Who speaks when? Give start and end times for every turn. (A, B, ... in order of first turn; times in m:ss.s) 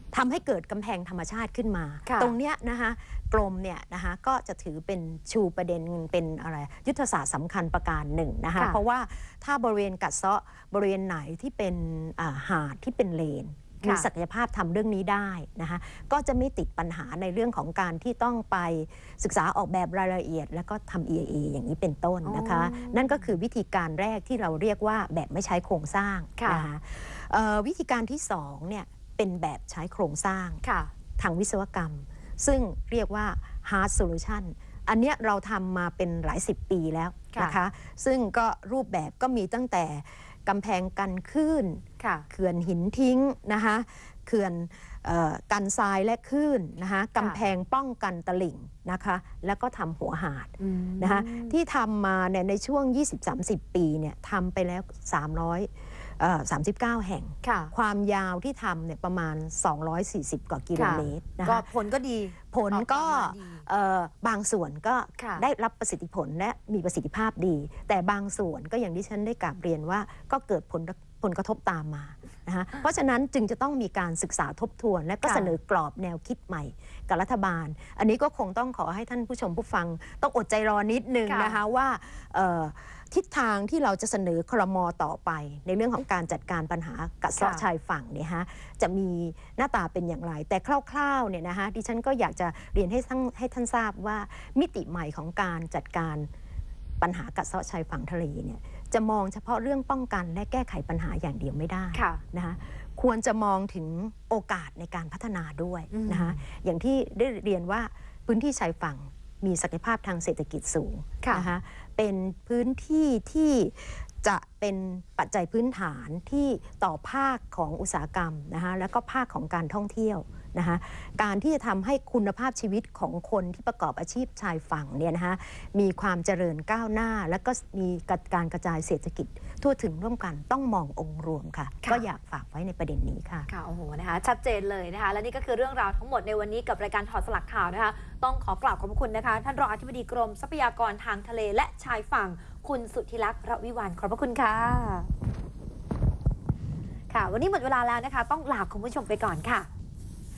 0:00.1-0:30.6 A
0:02.0-0:02.3 B
0:13.8-0:14.1 B
0:22.2-0:23.3 B
0:26.4-0:26.7 B
0:30.6-0:30.9 B
0:31.2-1:01.7 A
0:37.3-0:37.6 B
0:42.0-0:42.3 B
0:47.2-0:47.4 B
0:50.6-0:51.6 B
0:57.4-0:57.7 B
1:00.7-1:03.6 B
1:02.5-1:36.3 A
1:05.2-1:05.4 B
1:15.2-1:15.5 B
1:21.3-1:21.6 B
1:27.4-1:27.6 B
1:37.0-2:13.5 A
1:41.9-1:42.2 B
1:45.9-1:46.4 B
1:51.2-1:51.5 B
2:13.5-2:25.1 B
2:27.1-2:29.7 B